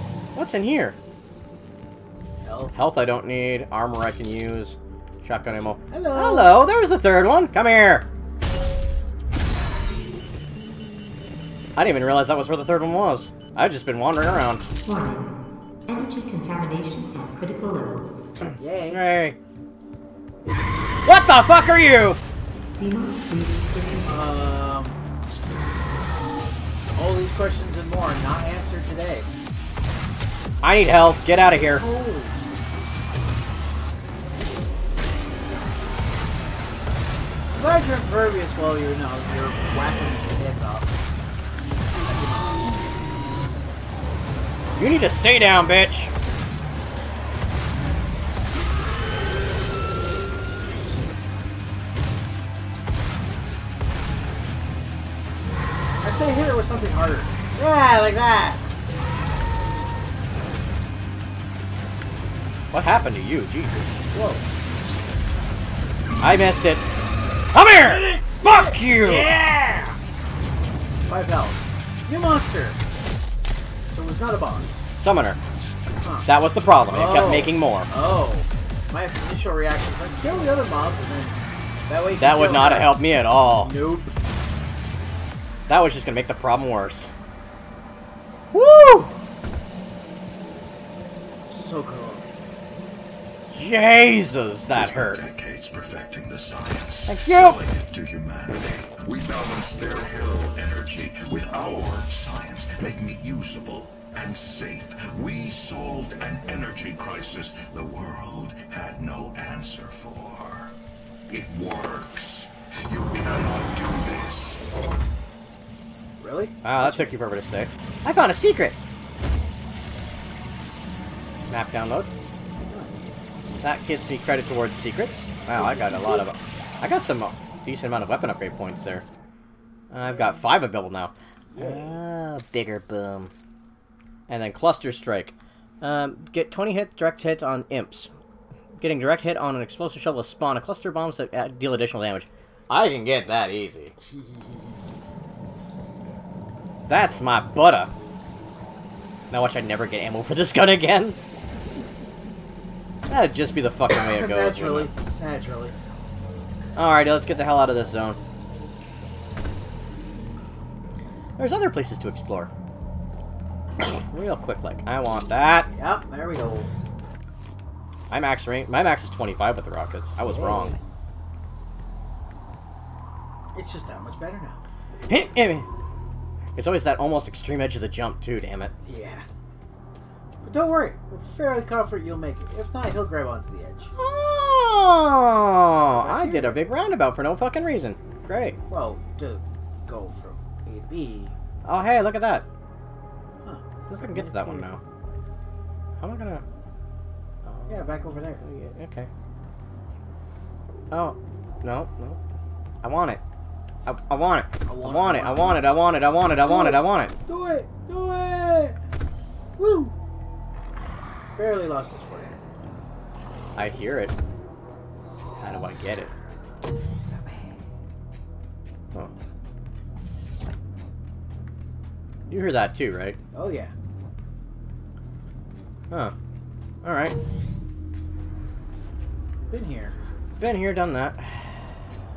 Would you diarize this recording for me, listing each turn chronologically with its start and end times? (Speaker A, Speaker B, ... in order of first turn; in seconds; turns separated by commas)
Speaker A: 0.3-1.0, Speaker B: 2.4-2.8, Speaker A: 2.7-8.1, Speaker B: 5.9-6.6, Speaker A: 11.8-14.6, Speaker C: 14.8-15.3, Speaker C: 15.9-18.2, Speaker B: 18.6-19.0, Speaker A: 18.9-19.4, Speaker A: 21.0-22.2, Speaker C: 22.8-24.2, Speaker B: 24.0-25.0, Speaker B: 26.9-29.3, Speaker A: 30.6-31.8, Speaker B: 31.6-32.5, Speaker B: 37.5-41.0, Speaker B: 41.9-42.9, Speaker A: 44.8-46.1, Speaker B: 56.0-58.6, Speaker A: 62.7-63.9, Speaker B: 64.1-64.4, Speaker A: 66.2-66.8, Speaker A: 67.5-69.3, Speaker B: 67.8-70.0, Speaker B: 71.0-72.8, Speaker B: 73.9-74.9, Speaker A: 75.0-75.4, Speaker B: 76.0-76.3, Speaker A: 76.2-77.9, Speaker B: 76.9-84.1, Speaker A: 82.2-83.7, Speaker A: 85.7-87.1, Speaker A: 88.5-89.2, Speaker B: 91.4-92.3, Speaker A: 93.5-95.2, Speaker D: 94.7-110.7, Speaker A: 97.1-97.6, Speaker D: 111.3-114.7, Speaker B: 116.2-117.2, Speaker A: 116.6-118.8, Speaker A: 121.5-122.1, Speaker B: 122.7-123.2, Speaker A: 123.6-129.1, Speaker B: 125.5-126.3, Speaker A: 129.9-133.3, Speaker B: 130.0-130.4, Speaker B: 131.5-132.0, Speaker A: 134.3-138.1, Speaker A: 138.8-143.9, Speaker B: 144.0-144.8, Speaker A: 146.9-147.9, Speaker A: 149.3-151.2, Speaker A: 153.1-154.9, Speaker B: 153.9-155.8, Speaker A: 156.8-158.2, Speaker A: 161.4-162.5, Speaker A: 163.8-165.7, Speaker B: 165.7-166.7, Speaker A: 168.1-170.7, Speaker B: 170.2-170.8, Speaker B: 173.5-174.6, Speaker A: 175.1-175.7, Speaker A: 176.6-178.7, Speaker B: 178.8-179.2, Speaker B: 180.4-183.9, Speaker A: 184.0-188.6, Speaker B: 185.9-186.7, Speaker B: 188.7-191.4, Speaker A: 191.6-192.5, Speaker B: 193.4-194.7, Speaker A: 193.9-194.8, Speaker A: 196.0-196.4, Speaker A: 197.4-199.1, Speaker B: 197.7-198.4, Speaker A: 200.9-202.2, Speaker A: 202.8-203.2, Speaker A: 203.8-207.1, Speaker B: 204.7-205.7, Speaker B: 206.4-208.8, Speaker B: 209.6-209.9, Speaker B: 211.3-212.4, Speaker A: 213.6-214.1, Speaker A: 215.4-216.1, Speaker A: 222.3-223.2, Speaker B: 223.3-223.7, Speaker A: 226.8-227.2, Speaker B: 229.5-229.9, Speaker A: 230.4-231.7